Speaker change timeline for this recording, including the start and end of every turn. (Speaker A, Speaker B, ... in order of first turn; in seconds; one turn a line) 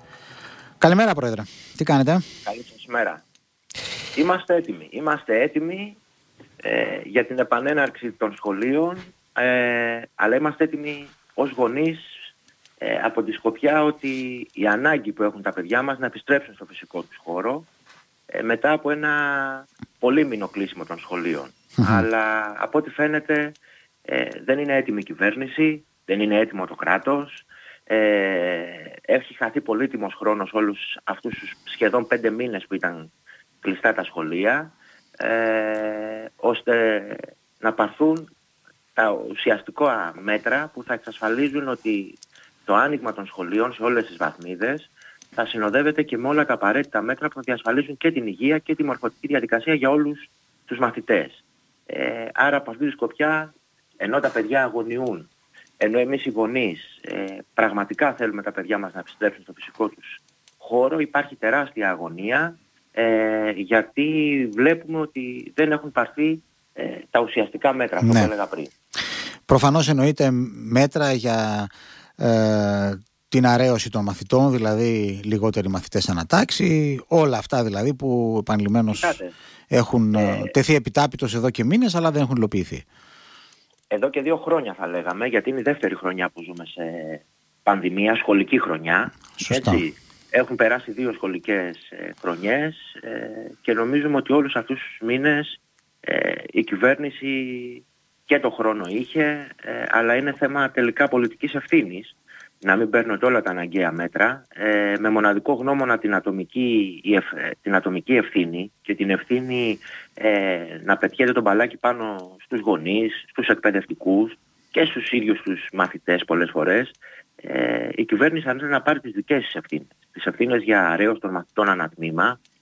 Speaker A: 0.8-2.2
Speaker B: 2.4-3.2
Speaker B: 4.2-6.0
Speaker B: 6.6-12.2
Speaker B: 12.8-17.7
Speaker B: 18.3-33.1
Speaker A: 21.8-22.0
Speaker B: 33.6-38.3
Speaker B: 39.0-55.3
Speaker B: 55.8-68.7
Speaker A: 68.0-68.3
Speaker A: 69.5-79.2
Speaker B: 78.9-79.3
Speaker A: 79.7-82.8
Speaker B: 80.1-80.5
Speaker B: 83.9-122.4
Speaker A: 89.4-89.8